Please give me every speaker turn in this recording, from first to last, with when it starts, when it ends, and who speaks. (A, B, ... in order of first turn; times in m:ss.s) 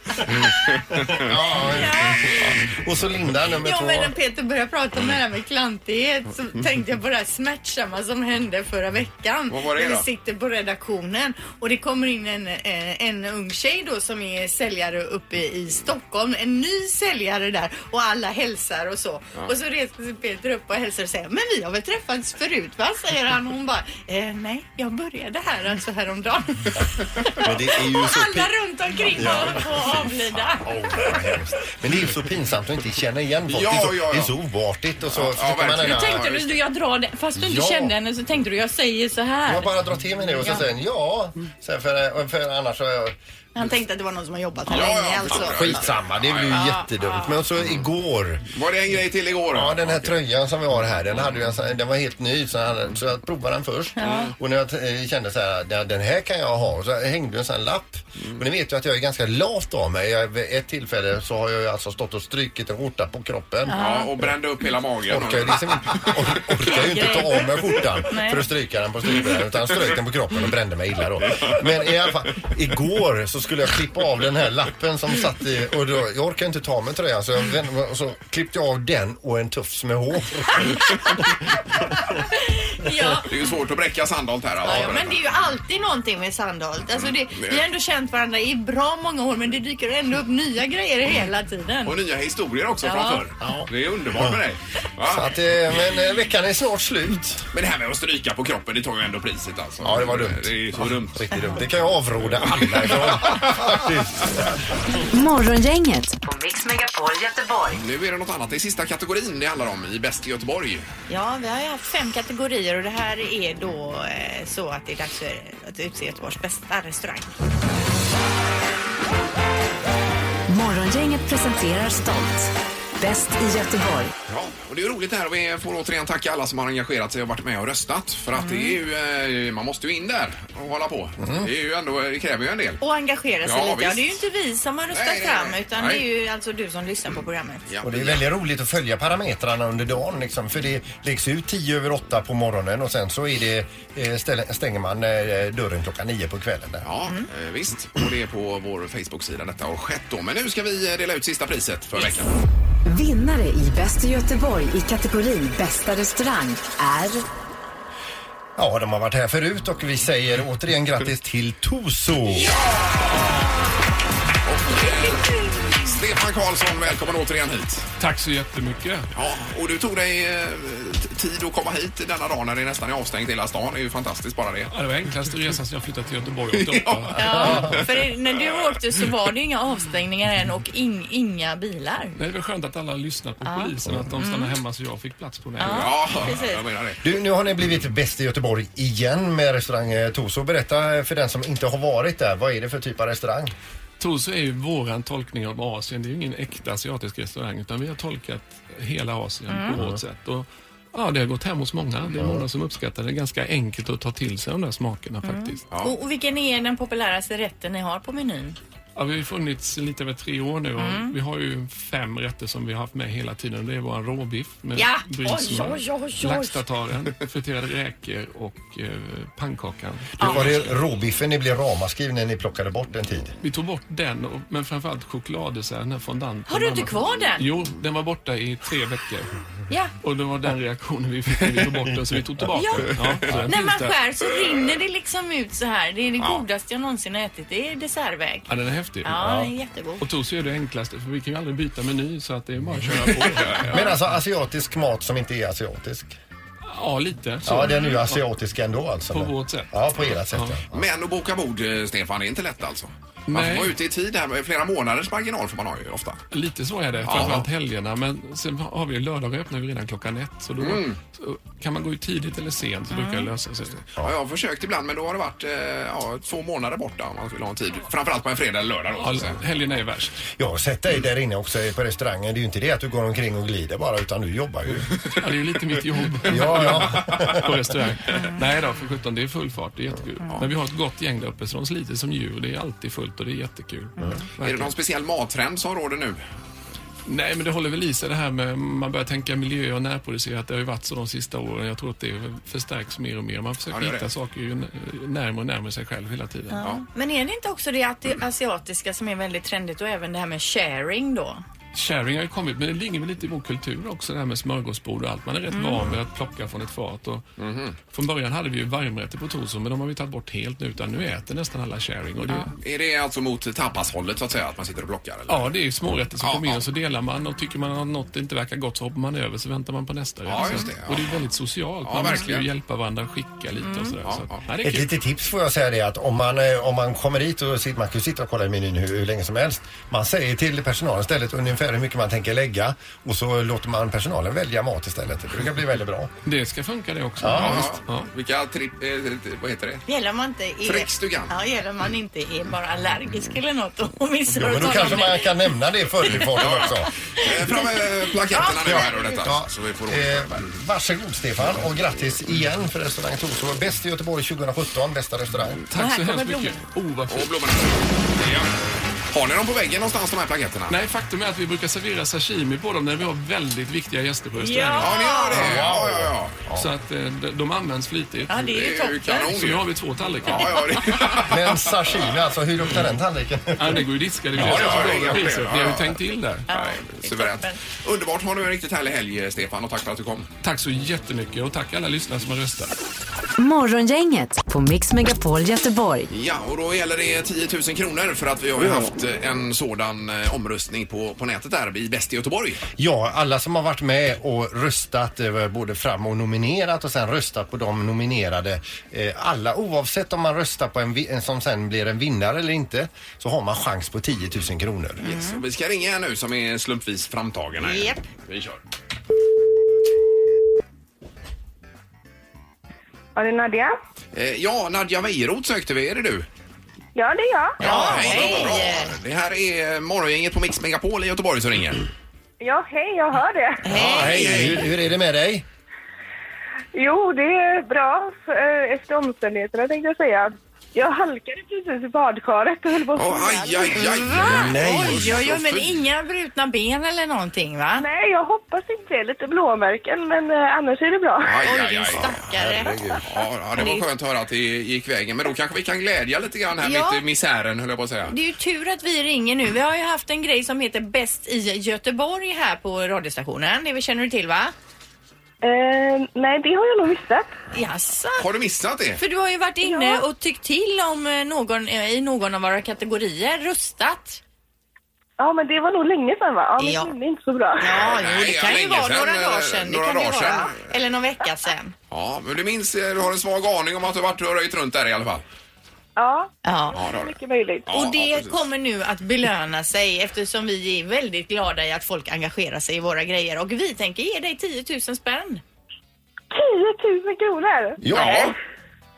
0:00.4-0:01.3 A
0:01.0-0:04.1 B
0:01.6-0:02.5 C
0:03.6-0:31.1 C
0:09.5-0:10.0 A
0:27.4-0:28.5 B
0:29.1-0:36.2 B
0:33.5-0:34.3 A
0:35.1-0:36.5 A
0:35.8-0:39.7 C
0:37.4-0:37.9 B
0:39.5-0:43.2 B
0:43.5-0:45.8 C
0:44.7-0:46.6 A
0:45.3-0:48.5 B
0:46.5-0:47.4 C
0:48.5-0:50.1 A
0:49.5-1:03.8 B
0:54.0-0:54.3 C
0:54.0-0:54.3 A
1:03.7-1:04.1 C
1:03.7-1:06.2 A
1:05.1-1:20.9 B
1:06.7-1:08.4 C
1:11.3-1:11.6 A
1:22.0-1:23.3 C
1:23.2-1:25.2 A
1:24.6-1:32.0 C
1:27.0-1:27.6 A
1:31.8-1:35.3 A
1:32.8-1:33.2 C
1:33.4-1:34.4 B
1:35.0-1:37.4 B
1:37.5-1:41.3 A
1:39.8-1:44.6 B
1:42.4-1:43.9 A
1:45.1-1:47.8 D
1:47.8-1:50.8 A
1:51.1-1:57.3 C
2:00.5-2:04.1 D
2:04.3-2:12.8 A
2:08.3-2:08.8 C
2:11.2-2:11.5 B
2:12.8-2:17.6 C
2:13.4-2:14.2 A
2:14.9-2:16.0 A
2:17.7-2:18.2 A
2:17.8-2:26.9 B
2:26.8-2:32.3 A
2:32.8-2:37.2 D
2:38.6-2:42.5 B
2:42.3-2:43.5 A
2:44.4-2:47.9 A
2:48.0-2:49.1 E
2:49.1-2:54.7 A
2:54.7-2:57.8 E
2:56.5-2:57.8 A
2:57.1-3:02.2 C
2:57.4-2:57.7 B
3:02.2-3:06.2 E
3:03.4-3:04.5 C
3:05.6-3:06.6 C
3:05.6-3:07.0 A
3:07.0-3:13.5 B
3:14.0-3:25.6 E
3:19.5-3:19.8 C
3:19.7-3:20.0 B
3:22.2-3:22.4 B
3:25.2-3:28.6 C
3:29.0-3:40.7 E
3:30.8-3:31.1 C
3:34.7-3:36.6 C
3:40.2-3:43.3 B
3:43.4-3:49.3 E
3:46.5-3:47.4 C
3:49.7-3:49.9 C
3:50.0-3:54.0 E
3:52.5-3:52.9 C
3:53.4-3:58.5 C
3:58.5-3:59.3 E
3:59.0-4:00.0 C
3:59.2-3:59.5 B
4:00.0-4:04.0 E
4:03.1-4:03.6 A
4:03.7-4:06.2 B
4:06.7-4:08.2 E
4:07.4-4:10.8 B
4:07.6-4:07.9 C
4:09.1-4:10.6 E
4:10.7-4:16.2 A
4:13.3-4:13.8 E
4:16.3-4:23.9 E
4:17.0-4:17.5 A
4:20.6-4:21.0 A
4:22.9-4:23.3 C
4:24.0-4:29.4 A
4:29.0-4:30.2 E
4:30.3-4:35.0 B
4:35.2-4:44.7 E
4:36.3-4:37.5 B
4:38.1-4:38.4 C
4:44.4-4:46.2 A
4:47.0-4:56.7 E
4:53.7-4:54.1 A
4:56.5-5:01.4 C
5:01.7-5:07.2 E
5:05.5-5:05.9 C
5:07.4-5:07.8 A
5:07.8-5:12.5 E
5:12.4-5:15.5 A
5:15.3-5:24.9 E
5:16.2-5:16.6 A
5:20.2-5:21.2 A
5:21.8-5:22.5 A
5:23.6-5:23.9 C
5:24.0-5:24.4 A
5:24.6-5:36.1 B
5:36.2-5:38.1 E
5:37.2-5:37.7 B
5:37.3-5:39.8 A
5:39.9-5:45.3 C
5:40.6-5:41.3 A
5:44.3-5:46.9 B
5:46.2-5:50.5 A
5:48.3-5:49.2 C
5:48.6-5:55.6 B
5:55.7-5:57.4 E
5:55.7-5:56.6 C
5:57.1-5:58.5 A
5:59.1-6:00.7 A
6:00.7-6:05.1 E
6:04.4-6:05.5 C
6:04.8-6:06.4 A
6:05.3-6:06.7 B
6:06.5-6:08.5 E
6:08.3-6:09.3 C
6:08.5-6:09.7 A
6:09.2-6:10.8 E
6:10.2-6:12.0 A
6:11.2-6:15.0 B
6:13.6-6:16.5 E
6:14.4-6:16.0 A
6:16.5-6:17.6 C
6:16.5-6:20.3 A
6:20.4-6:22.7 E
6:23.4-6:26.1 D
6:26.1-6:32.6 A
6:32.8-6:45.0 B
6:45.0-6:45.4 C
6:45.0-6:48.6 A
6:47.6-6:48.0 C
6:53.2-6:53.8 F
6:54.1-6:56.3 A
6:56.9-6:57.6 F
6:57.6-6:58.9 C
6:57.6-7:01.9 A
6:57.6-6:58.0 B
7:02.4-7:03.6 F
7:03.6-7:04.5 C
7:03.7-7:05.4 B
7:03.7-7:04.7 A
7:06.7-7:13.8 F
7:12.9-7:15.8 A
7:13.7-7:17.8 C
7:14.1-7:15.1 B
7:17.8-7:21.4 F
7:21.2-7:22.2 A
7:21.4-7:22.8 C
7:22.3-7:23.0 B
7:23.0-7:28.1 A
7:23.6-7:23.8 C
7:26.6-7:27.0 C
7:28.1-7:34.5 C
7:35.4-7:37.3 F
7:37.5-7:38.2 C
7:38.2-7:39.0 A
7:39.0-7:44.2 C
7:39.6-7:40.0 F
7:45.2-7:47.8 F
7:46.6-7:46.9 C
7:47.6-7:51.7 C
7:47.7-7:50.6 A
7:51.9-7:55.2 A
7:56.0-7:57.7 F
7:56.4-7:56.8 C
7:56.7-7:58.4 A
7:57.7-8:05.4 C
8:06.3-8:08.3 F
8:07.8-8:08.2 B
8:07.9-8:08.3 A